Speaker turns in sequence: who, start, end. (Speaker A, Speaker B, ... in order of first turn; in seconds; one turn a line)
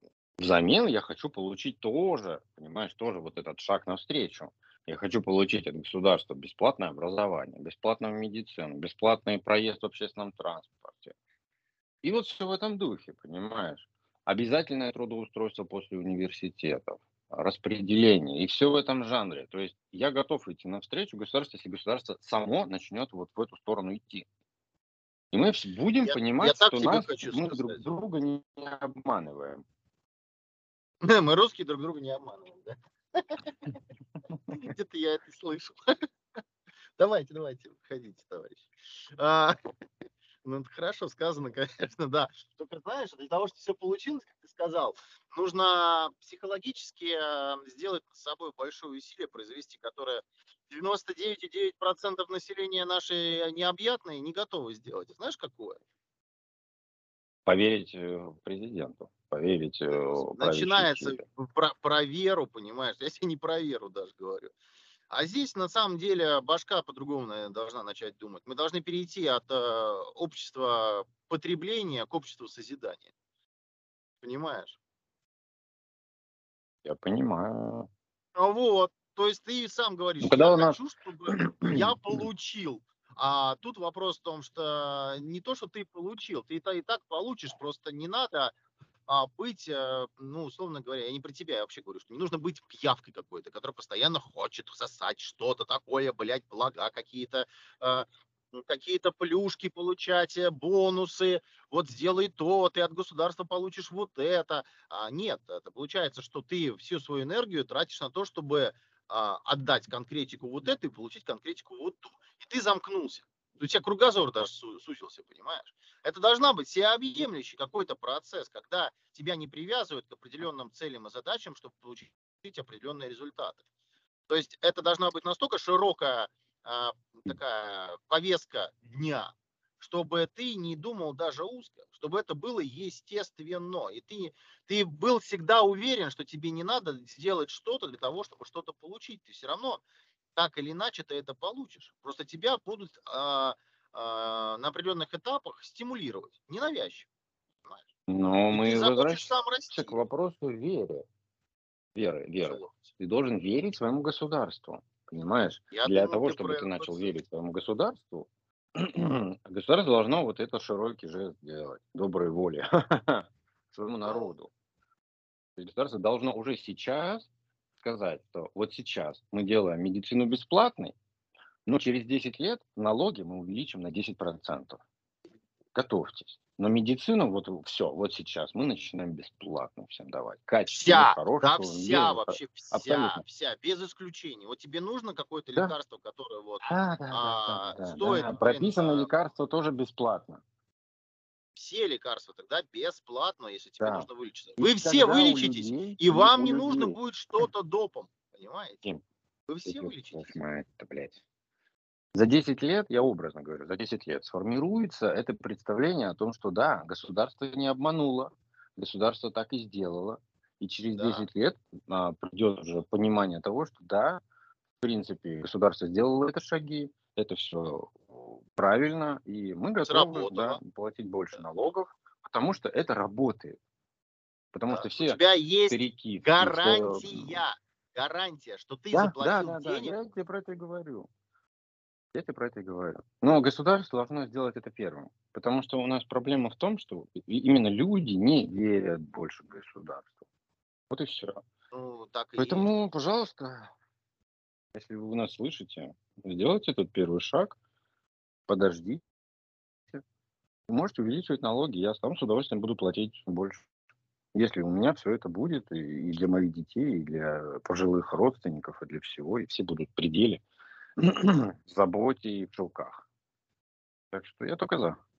Speaker A: 0.4-11.2
Speaker A: 12.0-24.3
Speaker A: 25.3-29.6
Speaker B: 26.0-27.8
Speaker B: 31.0-33.3
Speaker B: 34.5-35.8
Speaker B: 37.0-39.6
Speaker B: 40.4-55.8
Speaker A: 57.5-61.2
Speaker B: 59.9-64.5
Speaker B: 65.1-73.1
Speaker B: 74.2-74.8
Speaker A: 76.8-77.9
Speaker B: 78.4-88.5
Speaker A: 80.2-82.2
Speaker B: 89.1-123.6
Speaker B: 124.3-139.8
Speaker B: 140.4-147.1
Speaker A: 148.1-151.1
Speaker B: 148.5-150.0
Speaker A: 151.9-164.5
Speaker B: 152.4-152.9
Speaker B: 155.7-157.1
Speaker B: 164.1-164.3
Speaker A: 165.6-167.3
Speaker A: 167.8-170.9
Speaker A: 171.7-174.8
Speaker A: 175.8-183.2
Speaker B: 180.7-189.1
Speaker A: 186.6-190.4
Speaker B: 191.6-198.8
Speaker A: 193.8-197.5
Speaker B: 199.5-200.3
Speaker A: 199.7-201.2
Speaker A: 202.1-214.2
Speaker B: 211.0-211.3
Speaker A: 214.8-223.6
Speaker B: 219.8-220.6
Speaker A: 224.5-227.4
Speaker B: 224.7-230.0
Speaker A: 228.9-231.1
Speaker A: 232.1-240.2
Speaker A: 240.9-241.4
Speaker B: 241.7-242.7
Speaker A: 242.4-243.7
Speaker A: 244.7-247.6
Speaker A: 248.5-249.0
Speaker A: 250.7-253.7
Speaker A: 254.3-260.4
Speaker A: 261.0-263.0
Speaker A: 264.1-265.0